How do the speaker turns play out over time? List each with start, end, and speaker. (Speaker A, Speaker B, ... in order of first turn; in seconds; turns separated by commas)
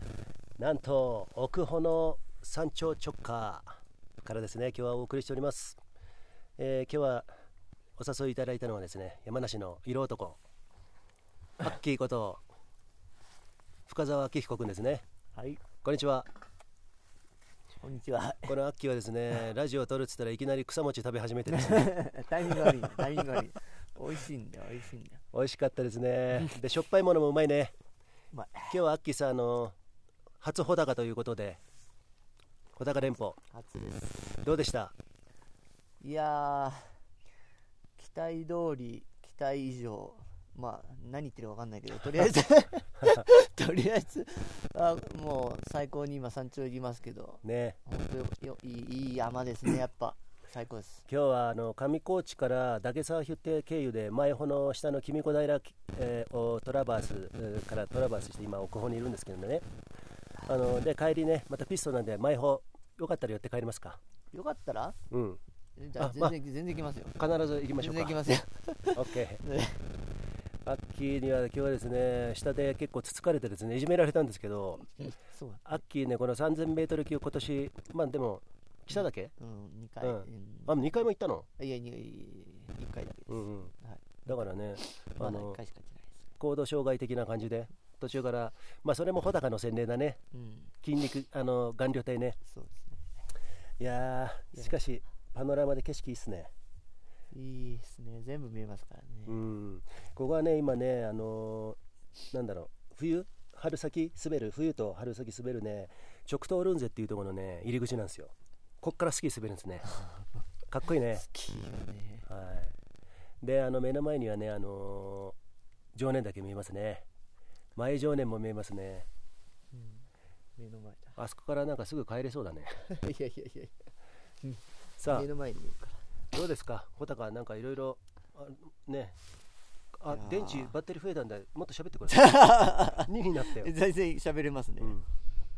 Speaker A: 0.6-5.8, Speaker A: 6.6-7.3, Speaker A: 8.0-10.4, Speaker A: 11.6-12.4, Speaker A: 13.9-15.0, Speaker B: 15.3-15.6, Speaker A: 15.8-16.3, Speaker B: 17.8-18.5, Speaker A: 18.4-21.9, Speaker B: 21.6-25.2, Speaker A: 25.3-27.7, Speaker B: 28.3-28.8, Speaker A: 28.7-29.7, Speaker A: 30.4-31.6, Speaker A: 32.8-33.4, Speaker B: 33.5-34.4, Speaker A: 34.4-34.9, Speaker B: 36.0-37.0, Speaker B: 38.0-51.0, Speaker A: 47.4-47.8, Speaker A: 51.1-59.6, Speaker A: 60.4-64.0, Speaker B: 64.3-65.0, Speaker A: 65.1-65.4, Speaker B: 65.8-67.2, Speaker A: 66.0-66.3, Speaker A: 67.2-68.2, Speaker B: 67.8-69.9, Speaker A: 68.9-69.4, Speaker A: 70.6-74.9, Speaker B: 75.3-75.7, Speaker A: 75.6-79.3, Speaker B: 79.4-80.9, Speaker A: 80.0-81.5, Speaker B: 81.6-86.3, Speaker A: 83.3-83.7, Speaker A: 84.2-85.6, Speaker A: 86.4-90.2, Speaker B: 90.3-90.7, Speaker A: 90.8-92.4, Speaker B: 92.5-93.0, Speaker A: 93.8-96.5, Speaker B: 97.3-99.4, Speaker A: 99.3-101.8, Speaker A: 102.3-110.0, Speaker A: 110.7-111.3, Speaker B: 111.2-112.2, Speaker A: 112.2-112.7, Speaker A: 113.4-115.3, Speaker A: 115.9-117.0, Speaker A: 117.8-119.1, Speaker B: 119.7-121.2, Speaker A: 121.2-122.9, Speaker B: 122.8-123.7, Speaker B: 124.4-126.0, Speaker A: 125.0-125.3, Speaker A: 126.3-129.2, Speaker A: 130.0-133.7, Speaker B: 130.1-130.7, Speaker B: 132.1-135.0